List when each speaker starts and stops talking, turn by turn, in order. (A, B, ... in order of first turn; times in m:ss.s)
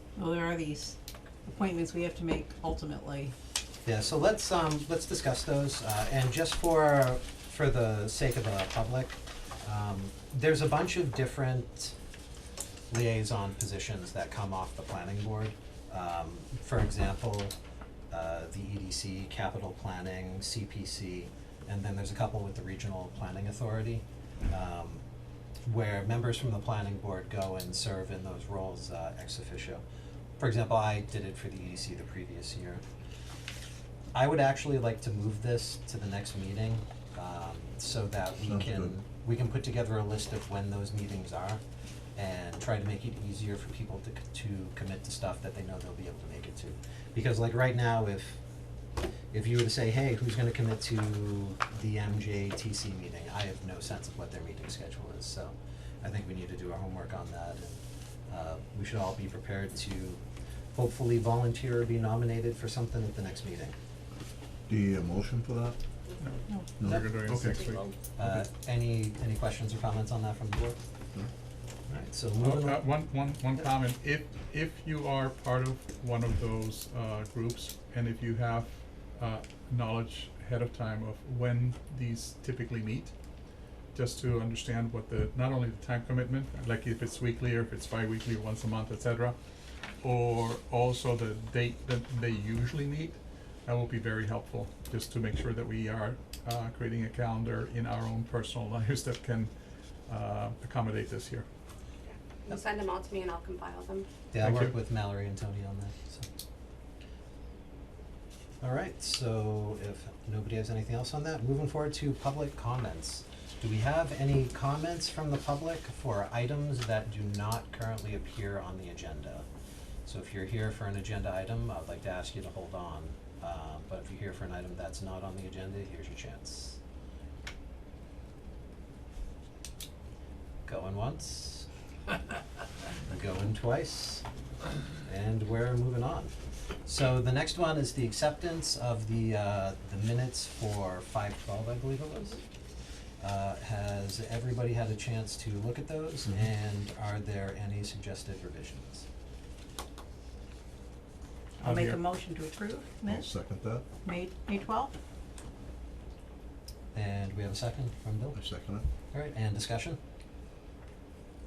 0:00.2-0:03.3 A
0:03.8-0:12.0 B
0:12.9-0:17.6 B
0:18.1-0:25.0 B
0:25.7-0:29.8 B
0:30.4-0:32.8 B
0:34.1-0:41.6 B
0:38.4-0:38.9 C
0:42.2-0:48.4 B
0:49.3-1:00.2 B
1:00.7-1:03.8 B
1:04.7-1:05.8 C
1:06.2-1:08.4 D
1:06.8-1:07.8 C
1:08.2-1:10.8 B
1:11.9-1:12.9 B
1:12.4-1:23.1 D
1:23.9-1:29.4 D
1:30.0-1:39.5 D
1:40.1-1:41.5 D
1:42.1-1:44.1 E
1:44.3-1:46.3 B
1:44.4-1:44.8 D
1:48.6-1:59.5 B
2:00.1-2:06.8 B
2:10.7-2:11.7 B
2:13.1-2:14.2 B
2:15.0-2:16.3 B
2:16.8-2:22.4 B
2:23.2-2:29.1 B
2:31.6-2:33.3 A
2:31.6-2:32.0 D
2:33.1-2:33.8 C
2:34.0-2:34.9 A
2:36.9-2:38.4 B
2:38.4-2:38.8 C
2:39.1-2:40.0 B